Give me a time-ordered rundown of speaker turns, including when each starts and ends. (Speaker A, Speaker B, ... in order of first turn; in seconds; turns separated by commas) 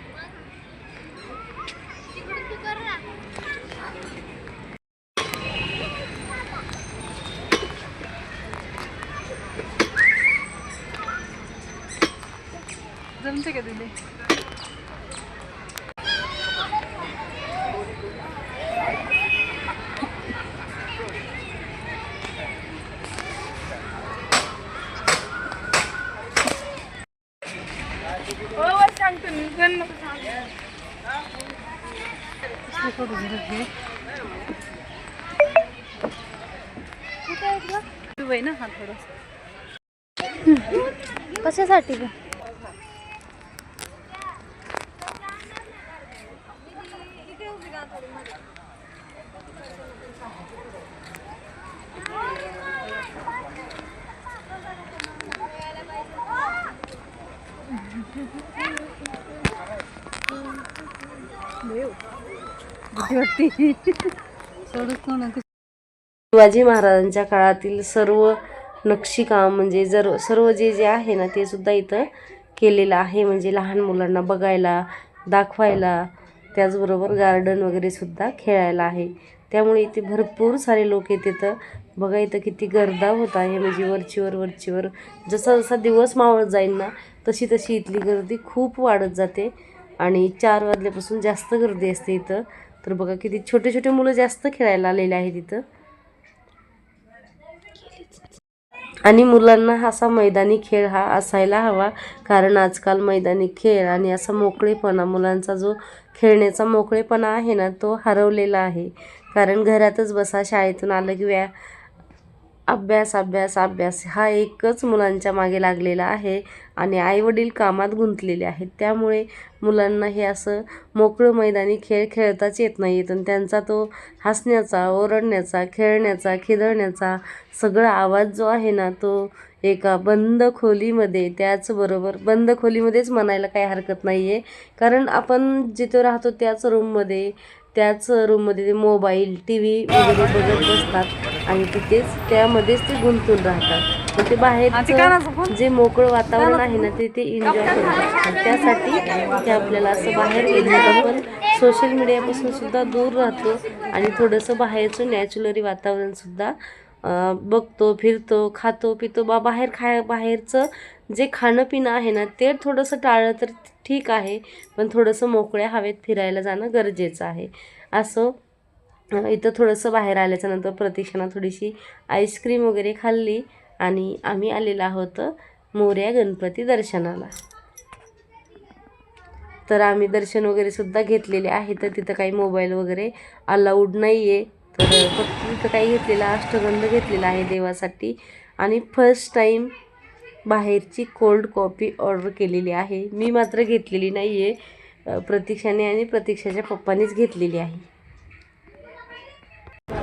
Speaker A: 2.3-3.0, Speaker B: 13.2-13.9, Speaker B: 28.6-30.1, Speaker B: 32.7-33.7, Speaker A: 37.3-37.8, Speaker B: 38.1-39.1, Speaker A: 41.4-42.1, Speaker B: 61.7-62.0, Speaker B: 62.9-64.1, Speaker B: 64.7-65.4, Speaker C: 66.3-95.6, Speaker C: 99.0-111.5, Speaker C: 112.7-168.3, Speaker B: 144.7-145.5, Speaker C: 169.1-177.3, Speaker C: 179.7-189.7, Speaker C: 190.5-197.9